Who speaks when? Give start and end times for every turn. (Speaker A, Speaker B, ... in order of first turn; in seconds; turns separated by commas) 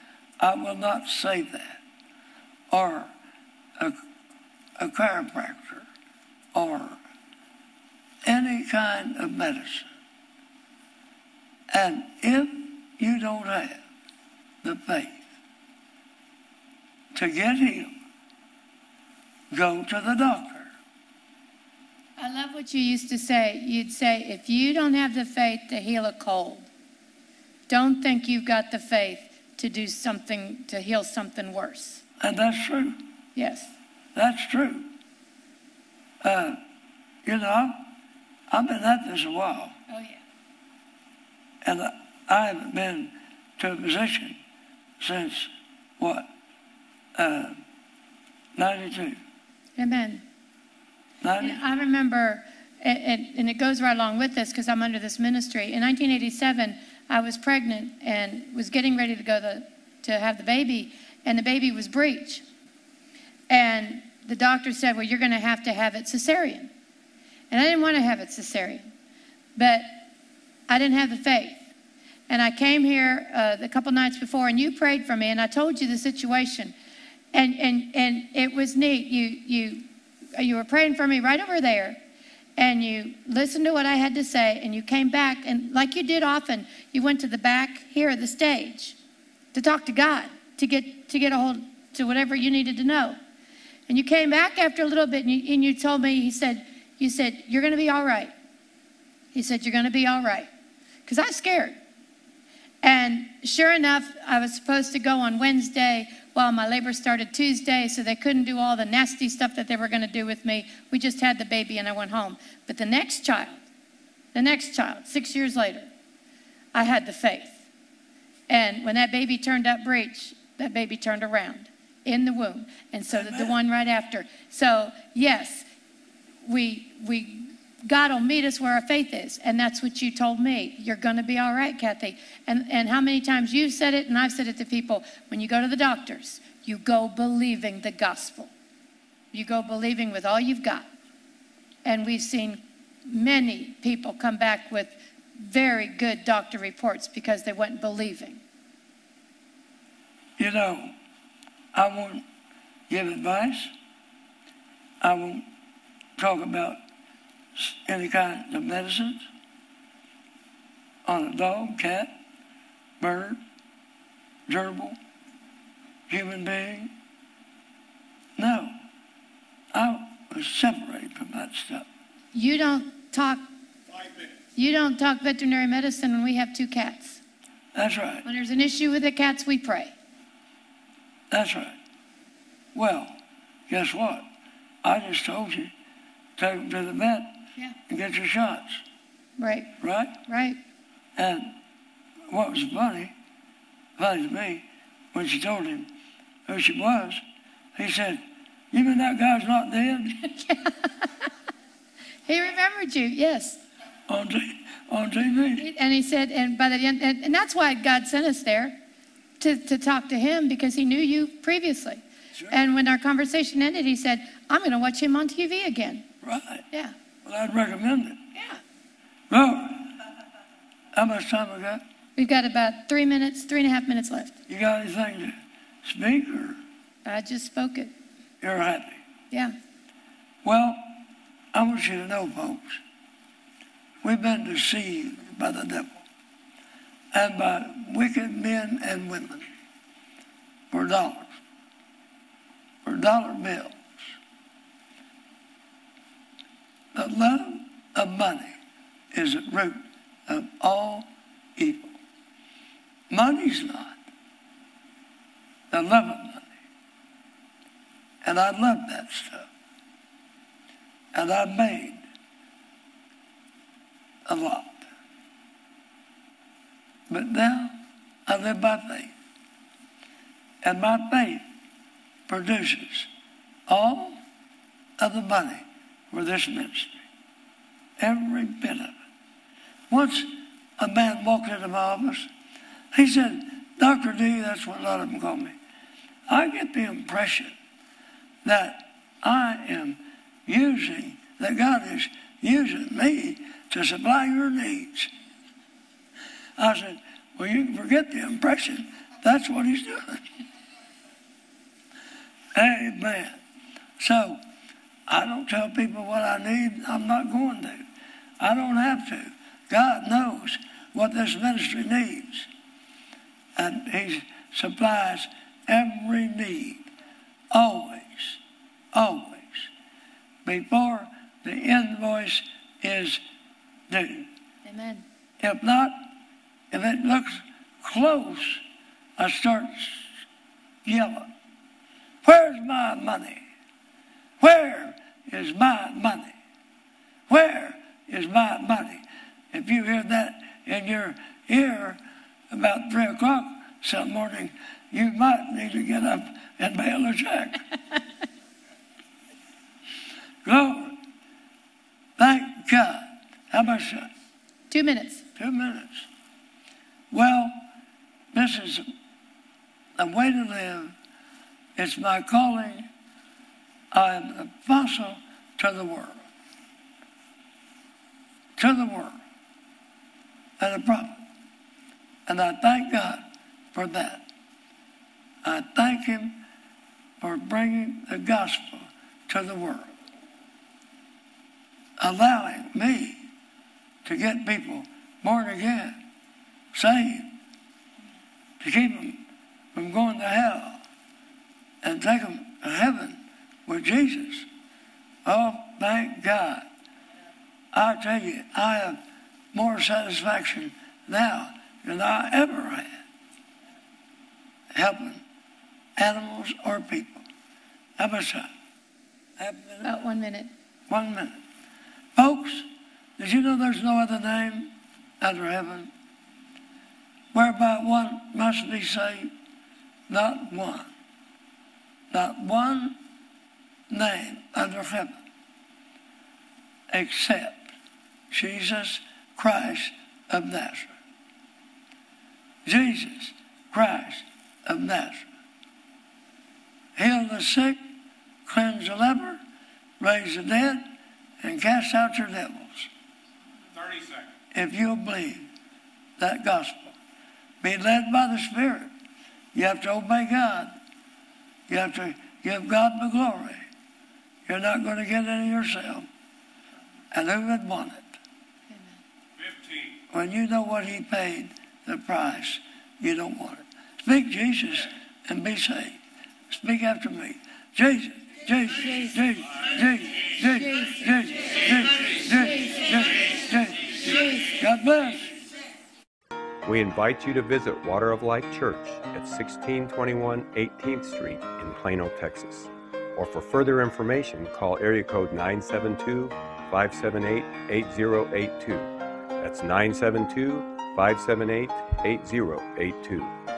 Speaker A: 0.4-1.8, Speaker A: 2.7-3.1, Speaker A: 4.8-5.9, Speaker A: 6.5-7.0, Speaker A: 8.2-9.9, Speaker A: 11.7-13.8, Speaker A: 14.6-15.2, Speaker A: 17.1-17.9, Speaker A: 19.5-20.7, Speaker B: 22.2-26.7, Speaker B: 27.7-32.0, Speaker A: 32.2-33.0, Speaker B: 33.4-33.7, Speaker A: 34.1-34.9, Speaker A: 36.2-36.6, Speaker A: 37.2-37.9, Speaker A: 38.5-39.8, Speaker B: 39.9-40.2, Speaker A: 41.6-44.4, Speaker A: 45.0-46.3, Speaker A: 47.1-47.6, Speaker A: 48.5-49.2, Speaker B: 49.8-50.2, Speaker A: 51.2-51.6, Speaker B: 51.4-62.4, Speaker B: 63.5-66.7, Speaker B: 67.5-68.9, Speaker B: 69.6-70.0, Speaker B: 70.7-71.6, Speaker B: 72.3-76.7, Speaker B: 77.3-82.0, Speaker B: 82.6-89.0, Speaker B: 89.5-93.2, Speaker B: 93.9-98.3, Speaker B: 99.3-100.5, Speaker B: 101.1-101.8, Speaker B: 102.8-113.6, Speaker B: 114.3-115.9, Speaker B: 116.7-117.6, Speaker B: 118.5-125.7, Speaker A: 123.1-123.5, Speaker B: 126.5-138.5, Speaker B: 139.3-140.9, Speaker B: 141.8-148.4, Speaker A: 150.4-150.9, Speaker A: 151.7-152.2, Speaker A: 152.9-153.7, Speaker A: 155.0-155.4, Speaker A: 156.2-156.8, Speaker A: 157.6-159.3, Speaker A: 161.1-162.2, Speaker A: 163.0-163.4, Speaker A: 164.5-165.0, Speaker A: 166.1-166.9, Speaker A: 168.4-168.8, Speaker A: 169.7-171.9, Speaker B: 172.3-173.4, Speaker B: 174.6-177.2, Speaker A: 177.7-178.2, Speaker B: 178.2-179.9, Speaker A: 181.3-181.8, Speaker A: 182.7-184.3, Speaker A: 184.8-185.7, Speaker A: 186.4-187.3, Speaker A: 187.9-188.8, Speaker B: 189.4-189.7, Speaker A: 189.8-190.2, Speaker B: 190.3-190.6, Speaker A: 191.2-191.6, Speaker A: 192.3-193.1, Speaker A: 194.0-195.9, Speaker A: 196.4-197.2, Speaker A: 197.8-200.2, Speaker B: 200.2-201.1, Speaker B: 202.3-203.6, Speaker A: 204.1-205.7, Speaker B: 205.6-208.8, Speaker B: 209.4-216.1, Speaker A: 216.2-216.6, Speaker A: 217.2-218.2, Speaker B: 218.3-218.6, Speaker A: 219.3-219.9, Speaker A: 220.9-221.8, Speaker B: 222.2-224.4, Speaker A: 224.5-226.6, Speaker B: 227.1-227.9, Speaker A: 228.4-229.0, Speaker A: 230.4-231.0, Speaker A: 231.5-232.8, Speaker A: 234.0-236.0, Speaker A: 237.1-239.5, Speaker A: 240.7-241.3, Speaker A: 242.8-244.1, Speaker A: 246.9-248.6, Speaker A: 249.1-252.0, Speaker A: 253.1-254.0, Speaker A: 255.7-256.5, Speaker A: 258.2-259.5, Speaker A: 261.1-262.0, Speaker A: 264.3-264.9, Speaker A: 267.1-269.1, Speaker A: 270.6-271.4, Speaker A: 272.3-273.1, Speaker A: 273.7-274.2, Speaker A: 275.0-277.0, Speaker A: 278.0-279.0, Speaker A: 279.9-282.3, Speaker A: 282.9-285.6, Speaker A: 286.3-287.6, Speaker A: 288.4-295.1, Speaker A: 296.6-300.2, Speaker A: 302.5-303.4, Speaker A: 304.0-304.4, Speaker A: 305.1-307.9, Speaker A: 308.4-312.5, Speaker A: 313.6-316.9, Speaker A: 317.5-318.4, Speaker A: 318.9-319.7, Speaker A: 320.4-323.2, Speaker A: 323.9-324.3, Speaker B: 324.6-325.1, Speaker A: 325.4-326.1, Speaker A: 326.7-328.6, Speaker A: 329.2-330.1, Speaker A: 330.9-331.3, Speaker A: 332.2-333.4, Speaker A: 334.4-336.3, Speaker A: 337.3-347.6, Speaker A: 350.4-351.0, Speaker A: 352.2-354.1, Speaker B: 354.7-355.2, Speaker A: 355.4-356.1, Speaker A: 357.1-357.7, Speaker A: 358.3-358.9, Speaker A: 360.0-360.9, Speaker A: 361.8-362.9, Speaker A: 363.9-366.3, Speaker A: 368.6-369.2, Speaker A: 370.6-371.2, Speaker A: 372.3-374.3, Speaker A: 375.4-376.4, Speaker A: 377.2-379.9, Speaker A: 382.0-383.2, Speaker A: 384.0-386.0, Speaker A: 386.7-387.3, Speaker A: 388.6-390.8, Speaker A: 391.8-394.5, Speaker A: 395.2-396.7, Speaker A: 397.7-403.0, Speaker A: 404.7-405.2, Speaker A: 406.0-407.2, Speaker A: 408.0-408.5, Speaker A: 409.4-410.0, Speaker B: 409.8-410.5, Speaker A: 410.9-411.4, Speaker A: 412.1-415.9, Speaker A: 417.3-419.3, Speaker A: 420.1-420.9, Speaker A: 422.1-423.0, Speaker A: 423.9-425.2, Speaker A: 426.9-427.8, Speaker A: 428.3-430.9, Speaker A: 432.6-435.3, Speaker A: 436.9-437.8, Speaker A: 438.4-439.4, Speaker A: 440.0-442.9, Speaker A: 444.5-445.5, Speaker A: 446.2-447.0, Speaker A: 447.6-448.9, Speaker A: 449.5-450.8, Speaker A: 451.7-453.6, Speaker A: 454.4-456.1, Speaker A: 457.1-458.1, Speaker B: 458.7-459.0, Speaker A: 460.1-475.4, Speaker C: 476.6-493.3